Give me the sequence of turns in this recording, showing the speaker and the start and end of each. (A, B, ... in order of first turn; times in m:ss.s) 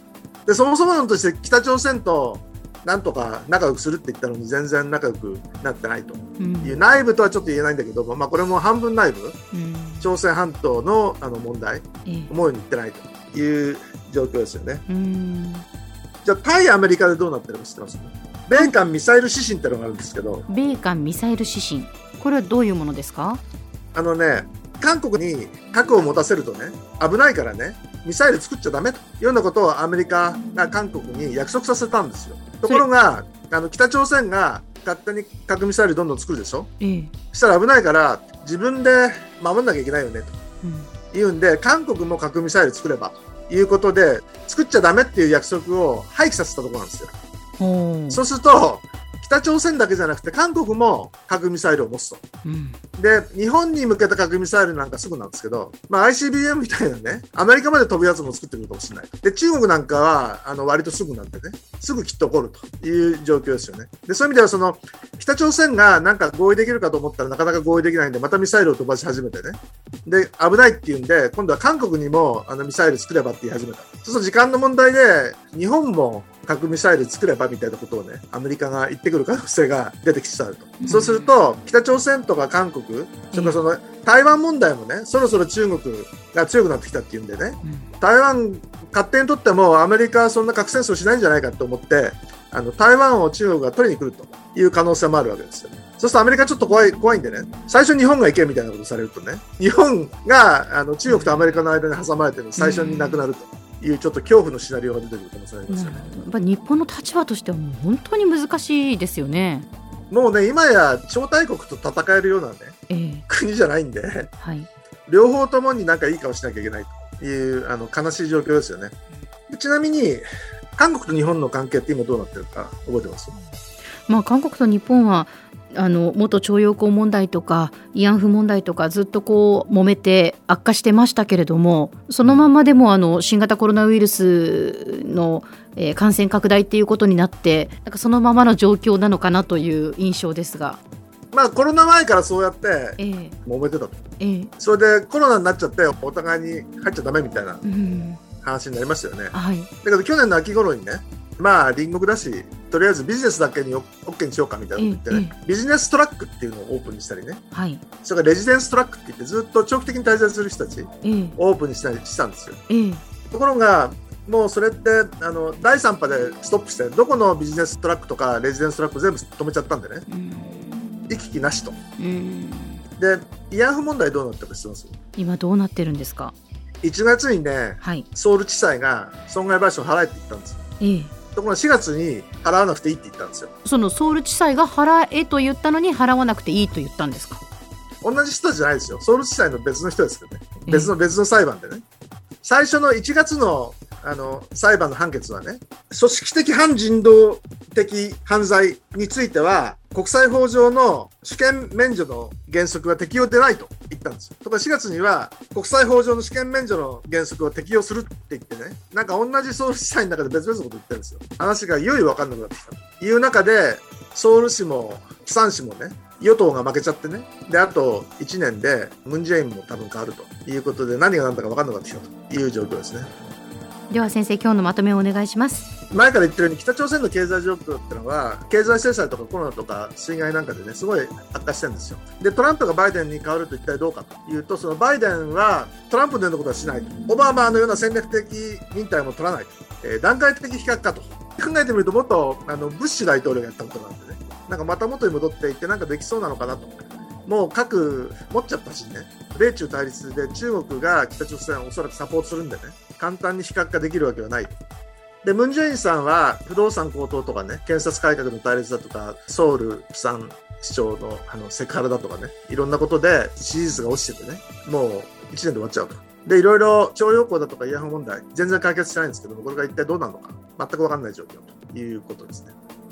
0:00.4-0:09.4 A
0:06.4-0:06.8 B
0:09.5-0:10.1 B
0:10.0-0:14.8 A
0:12.0-0:12.3 B
0:14.9-0:15.6 B
0:16.2-0:20.5 A
0:20.5-0:23.4 B
0:23.9-0:36.7 A
0:36.8-0:37.1 B
0:37.3-0:40.4 A
0:40.6-0:40.9 B
0:41.1-0:47.1 A
0:47.6-0:48.2 B
0:48.1-0:52.2 A
0:52.4-0:52.8 B
0:53.0-1:46.1 A
1:20.8-1:21.3 B
1:41.1-1:41.6 B
1:42.6-1:43.2 B
1:45.7-1:49.7 B
1:50.1-1:52.8 A
1:52.9-1:53.2 B
1:53.3-1:54.3 A
1:54.4-1:54.7 B
1:55.1-1:58.9 A
1:59.5-2:00.2 A
2:00.8-2:03.4 A
2:04.1-2:20.8 B
2:21.3-2:24.0 A
2:23.0-2:23.4 B
2:24.2-2:24.5 B
2:24.6-2:27.6 A
2:27.6-2:28.2 B
2:28.4-2:37.4 A
2:29.3-2:29.7 B
2:34.8-2:35.3 B
2:37.5-2:37.8 B
2:38.0-2:42.6 A
2:41.0-2:41.3 B
2:42.7-2:43.0 B
2:43.3-2:50.0 A
2:50.1-2:51.0 B
2:51.1-2:51.8 A
2:52.0-2:52.8 B
2:53.0-2:55.0 A
2:55.2-2:56.3 B
2:56.8-3:00.6 A
2:57.8-2:58.0 B
3:00.8-3:01.1 B
3:01.3-3:03.5 A
3:03.6-3:07.4 B
3:08.0-3:11.8 A
3:10.6-3:10.9 B
3:12.4-3:43.1 A
3:43.9-3:45.7 B
3:45.9-4:06.7 A
4:07.2-4:14.6 A
4:15.2-4:32.5 A